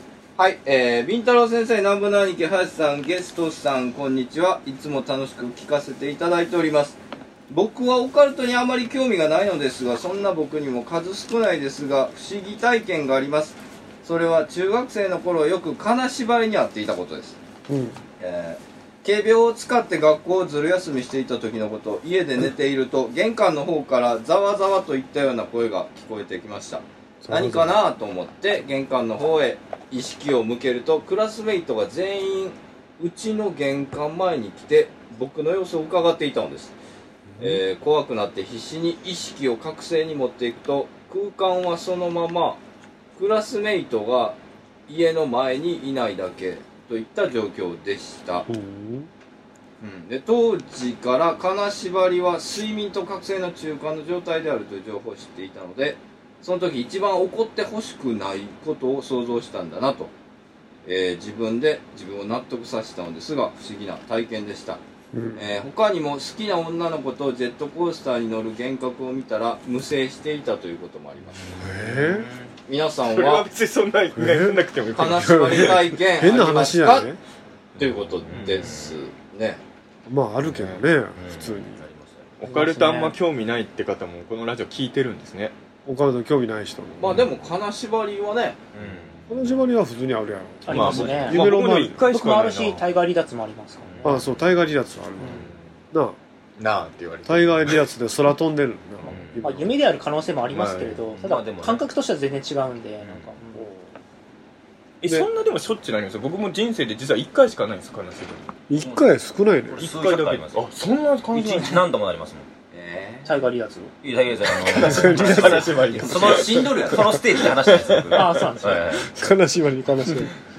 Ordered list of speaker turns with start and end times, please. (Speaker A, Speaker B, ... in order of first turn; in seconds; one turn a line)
Speaker A: 0.4-7.0
Speaker A: 7.5-17.4
Speaker B: 17.7-18.0
Speaker A: 18.2-36.7
Speaker B: 27.2-27.7
Speaker B: 37.3-37.6
Speaker A: 37.4-42.6
Speaker A: 43.2-48.5
Speaker B: 48.5-49.1
Speaker A: 49.8-60.1
Speaker A: 60.8-64.8
Speaker B: 65.1-65.4
Speaker A: 65.3-71.5
Speaker C: 71.4-72.5
Speaker B: 71.6-72.3
Speaker A: 72.7-73.5
Speaker D: 73.1-75.8
Speaker B: 74.1-77.2
Speaker A: 74.9-77.1
Speaker A: 77.8-79.6
Speaker C: 77.8-79.0
Speaker B: 80.1-81.8
Speaker C: 80.4-82.4
Speaker D: 82.4-85.5
Speaker E: 82.4-83.2
Speaker B: 85.8-87.1
Speaker A: 87.0-88.6
Speaker C: 88.7-89.6
Speaker B: 89.3-92.0
Speaker E: 90.6-91.4
Speaker D: 90.7-92.8
Speaker E: 92.0-94.0
Speaker C: 93.8-94.3
Speaker B: 94.0-96.2
Speaker D: 95.3-95.6
Speaker D: 96.6-97.9
Speaker B: 97.2-99.7
Speaker C: 99.0-99.5
Speaker E: 99.4-103.3
Speaker D: 100.5-101.0
Speaker C: 101.1-101.8
Speaker C: 103.0-103.6
Speaker B: 103.5-103.9
Speaker D: 105.0-108.5
Speaker B: 108.7-109.9
Speaker C: 109.7-110.7
Speaker D: 109.8-111.9
Speaker C: 111.3-112.5
Speaker A: 112.7-113.3
Speaker E: 113.2-113.9
Speaker C: 114.0-119.1
Speaker D: 114.5-118.4
Speaker B: 114.7-115.8
Speaker A: 115.9-117.4
Speaker E: 118.1-119.0
Speaker B: 119.1-120.3